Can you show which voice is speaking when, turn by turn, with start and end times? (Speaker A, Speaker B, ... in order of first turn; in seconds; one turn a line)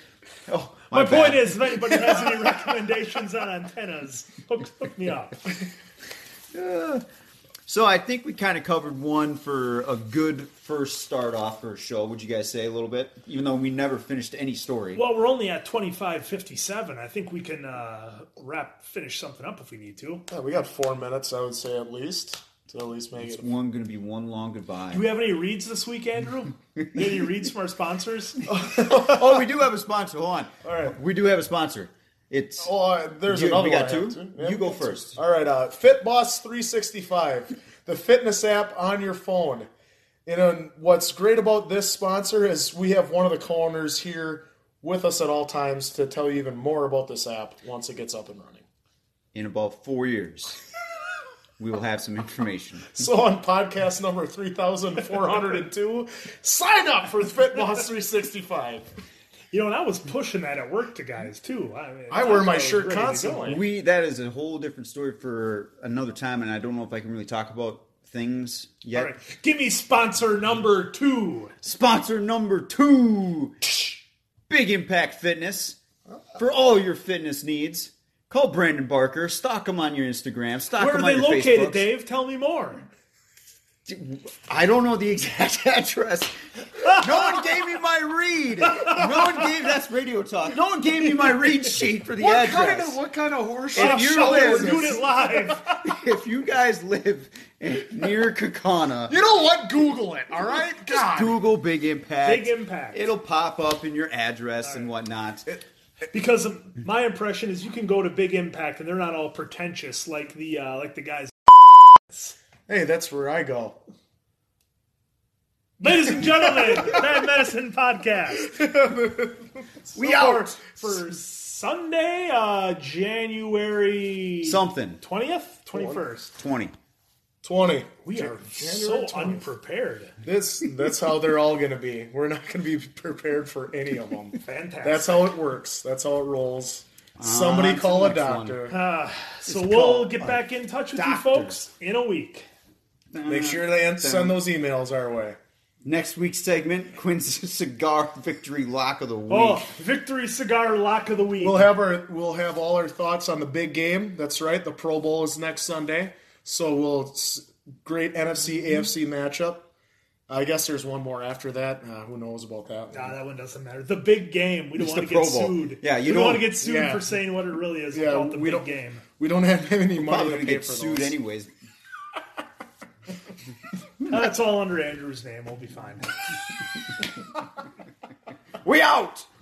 Speaker A: 0.5-2.2
Speaker B: 0.9-5.4
Speaker A: 6.5-7.0
Speaker A: 7.7-15.0
Speaker B: 14.9-20.2
Speaker C: 20.3-23.4
Speaker A: 23.2-25.1
Speaker B: 24.9-28.4
Speaker A: 26.8-27.2
Speaker C: 28.5-29.4
Speaker A: 28.7-32.7
Speaker C: 30.6-30.9
Speaker C: 32.6-39.7
Speaker A: 33.3-35.2
Speaker C: 40.2-48.6
Speaker A: 49.3-50.6
Speaker A: 51.6-53.1
Speaker C: 52.9-58.9
Speaker B: 59.5-63.6
Speaker C: 62.1-63.6
Speaker A: 63.4-69.1
Speaker B: 68.9-71.5
Speaker A: 71.6-73.5
Speaker A: 74.5-75.8
Speaker A: 76.3-81.9
Speaker B: 80.8-82.9
Speaker A: 83.8-93.0
Speaker C: 92.2-95.5
Speaker A: 93.7-95.0
Speaker B: 93.8-95.6
Speaker A: 95.8-99.1
Speaker C: 99.1-101.4
Speaker A: 100.9-105.6
Speaker B: 102.2-103.0
Speaker B: 104.6-104.9
Speaker B: 106.1-112.3
Speaker C: 112.7-113.8
Speaker B: 115.8-118.5
Speaker C: 116.6-117.0
Speaker C: 118.3-119.9
Speaker A: 119.9-120.5
Speaker B: 120.0-126.3
Speaker A: 124.4-125.0
Speaker C: 125.7-126.0
Speaker A: 126.3-126.7
Speaker C: 127.4-129.5
Speaker B: 128.0-130.1
Speaker C: 130.2-138.8
Speaker B: 134.4-135.2
Speaker A: 137.2-138.6
Speaker B: 138.7-142.5
Speaker A: 139.4-141.6
Speaker A: 143.1-144.4
Speaker C: 143.2-145.4
Speaker A: 145.8-149.7
Speaker B: 149.3-151.7
Speaker C: 151.4-159.7
Speaker C: 160.3-163.1
Speaker B: 162.9-169.0
Speaker A: 164.8-166.5
Speaker C: 166.6-167.1
Speaker C: 167.9-171.1
Speaker A: 170.0-171.5
Speaker B: 174.1-176.2
Speaker A: 178.6-179.3